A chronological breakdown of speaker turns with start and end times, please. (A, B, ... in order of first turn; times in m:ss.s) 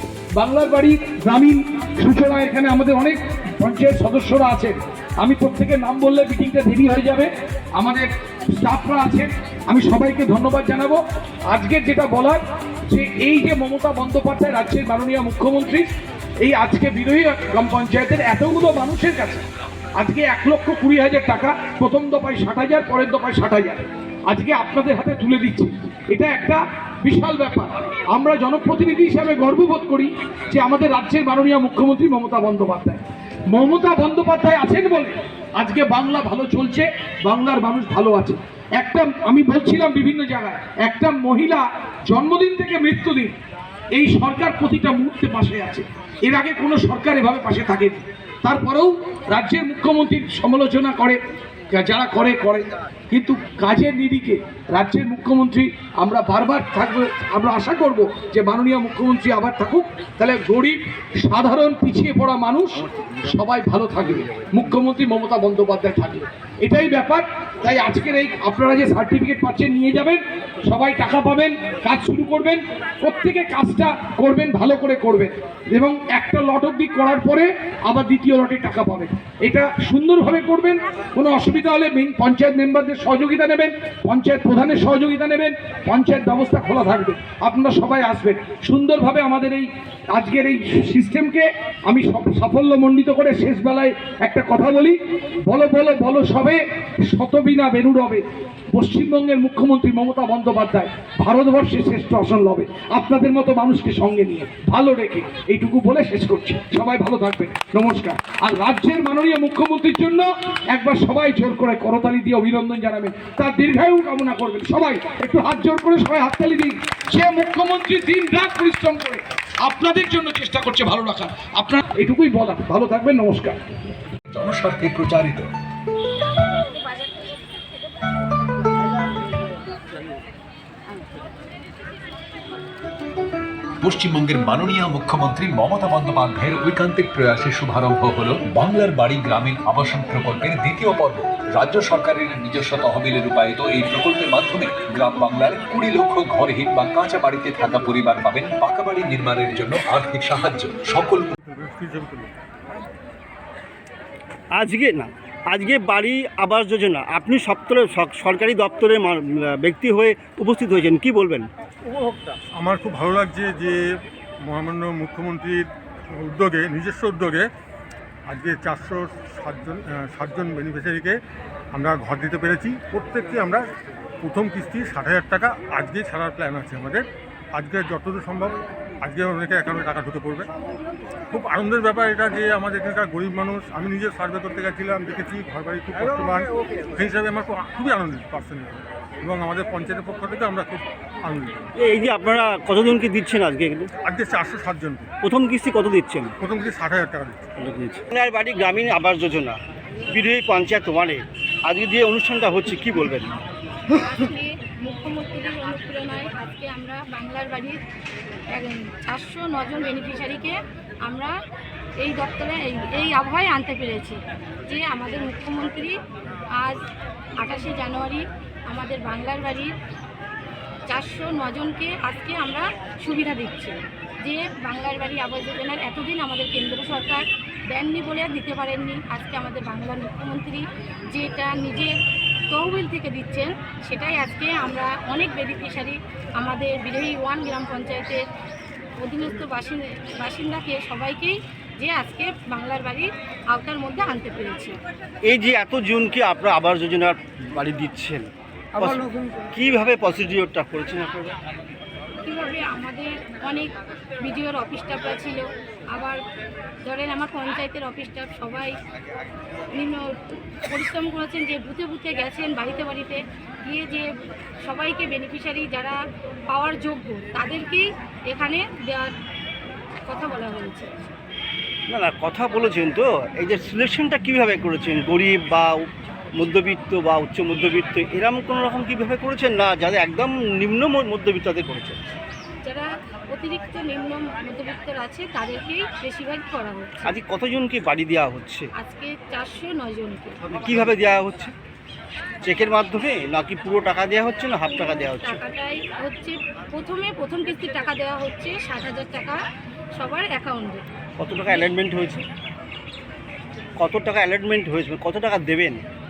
0:00.4-0:15.9 A
0:16.4-0:19.4 A
0:20.0-0:43.3 A
0:44.0-0:51.2 A
0:51.7-2:03.7 A
2:04.3-2:05.5 B
2:13.8-2:31.4 B
2:31.4-2:32.3 C
2:34.6-2:41.5 D
2:41.9-2:43.8 C
2:44.4-2:47.5 C
2:48.3-2:51.2 C
2:51.7-2:53.7 C
2:54.2-3:00.5 C
3:01.3-3:11.6 C
3:11.8-3:13.9 D
3:14.0-3:15.0 C
3:15.2-3:16.3 D
3:16.4-3:17.4 C
3:17.6-3:19.6 D
3:20.1-3:23.4 D
3:23.9-3:27.8 E
3:28.5-3:31.3 E
3:32.0-3:36.0 E
3:37.4-3:39.7 E
3:40.9-3:51.9 E
3:52.5-3:58.2 E
3:59.0-4:04.7 E
4:05.2-4:11.3 D
4:12.2-4:16.2 E
4:16.8-4:18.7 E
4:19.7-4:20.1 E
4:20.6-4:24.1 E
4:24.6-4:26.0 E
4:26.5-4:29.1 E
4:30.0-4:31.1 E
4:31.9-4:35.7 D
4:36.4-4:42.0 D
4:42.6-4:47.2 E
4:47.0-4:48.7 D
4:48.8-4:50.4 E
4:50.5-4:51.5 D
4:52.4-4:55.4 D
4:54.6-4:59.4 E
5:00.0-5:00.8 E
5:01.2-5:02.2 D
5:03.8-5:05.8 D